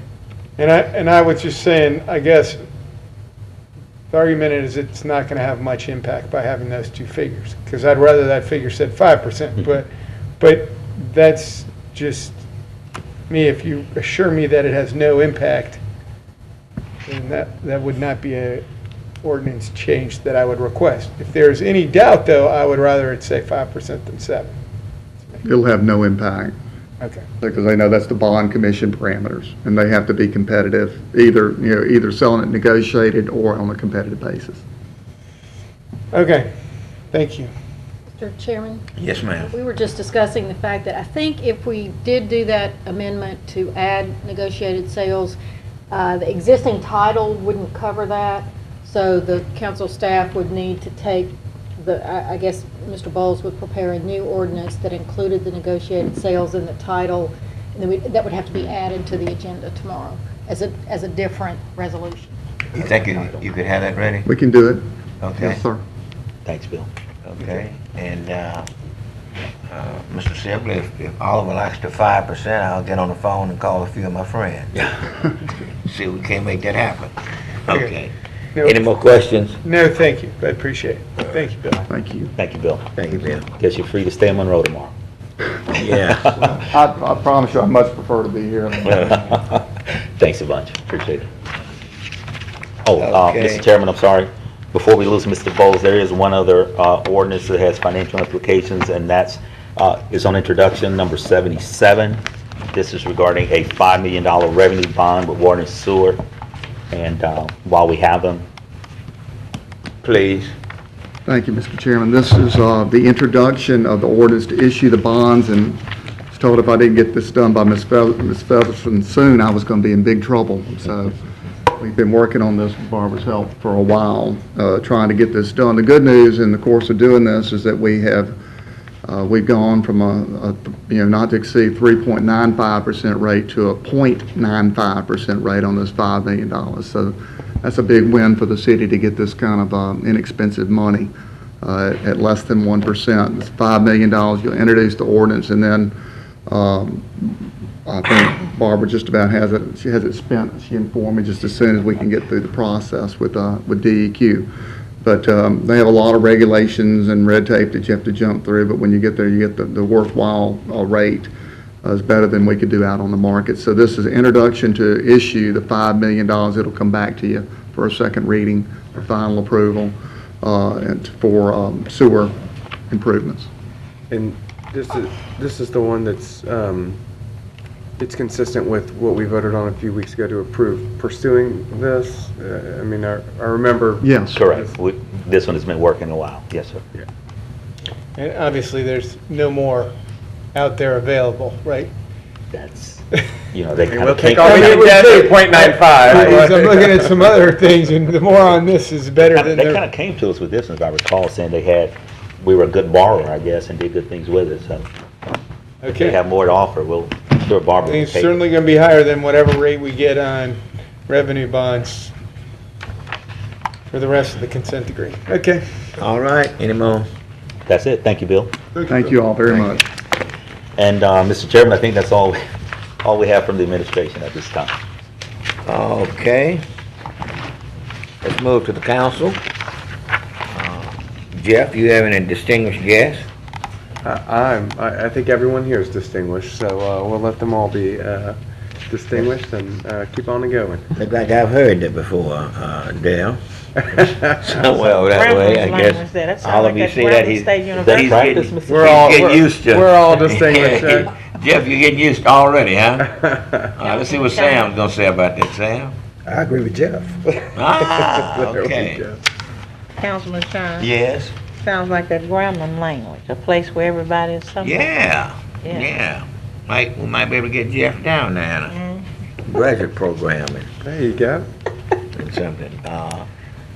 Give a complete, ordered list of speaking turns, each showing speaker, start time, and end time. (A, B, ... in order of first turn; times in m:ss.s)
0:00.6-0:02.6 A
0:04.1-0:12.4 A
0:13.3-0:15.8 A
0:17.0-0:18.6 A
0:19.2-0:24.5 A
0:25.4-0:26.5 B
0:27.0-0:27.2 A
0:27.4-0:34.6 B
0:36.1-0:36.5 A
0:37.1-0:37.5 A
0:38.2-0:38.8 C
0:39.0-0:39.5 D
0:39.4-0:45.4 C
0:45.9-1:02.3 C
1:02.7-1:04.3 D
1:02.8-1:03.4 E
1:04.2-1:04.8 B
1:05.2-1:05.6 D
1:05.4-1:05.8 B
1:06.4-1:06.9 E
1:07.2-1:08.7 D
1:09.7-1:14.7 D
1:14.7-1:15.0 E
1:15.8-1:19.6 D
1:18.5-1:18.8 A
1:19.6-1:21.9 A
1:21.9-1:22.3 B
1:22.4-1:22.9 E
1:22.9-1:23.4 D
1:23.4-1:24.9 E
1:25.7-1:26.5 D
1:26.4-1:29.2 B
1:28.9-1:31.3 E
1:32.8-1:46.2 E
1:33.0-1:33.6 D
1:46.9-1:48.4 E
1:50.0-1:50.5 D
1:51.2-1:55.8 B
1:56.3-2:01.2 B
2:01.8-2:08.4 B
2:09.0-2:25.9 B
2:26.5-2:34.5 B
2:35.0-2:41.3 B
2:41.8-2:52.3 B
2:52.9-2:53.5 B
2:54.1-2:57.0 F
2:58.0-3:04.7 F
3:04.0-3:04.4 B
3:04.3-3:06.8 E
3:08.2-3:09.9 A
3:10.5-3:11.9 A
3:12.5-3:15.2 E
3:13.8-3:17.1 F
3:14.4-3:19.8 A
3:19.3-3:24.8 E
3:25.8-3:26.2 A
3:25.9-3:28.4 E
3:27.8-3:32.1 A
3:33.9-3:35.6 A
3:36.0-3:37.1 D
3:37.7-3:38.5 E
3:38.9-3:39.8 B
3:40.8-3:42.4 E
3:43.0-3:44.7 E
3:45.6-3:46.6 D
3:48.2-3:49.4 D
3:50.5-3:53.2 D
3:54.0-4:00.9 F
4:01.0-4:03.4 D
4:03.9-4:15.9 D
4:05.1-4:08.3 G
4:07.8-4:09.5 E
4:08.7-4:11.1 F
4:13.8-4:14.7 G
4:16.3-4:19.2 F
4:17.5-4:19.0 D
4:20.0-4:20.8 G
4:20.8-4:21.3 D
4:21.6-4:24.9 G
4:24.6-4:28.7 D
4:25.6-4:25.9 G
4:28.8-4:29.0 G
4:29.4-4:30.7 D
4:30.8-4:31.5 F
4:32.1-4:33.3 D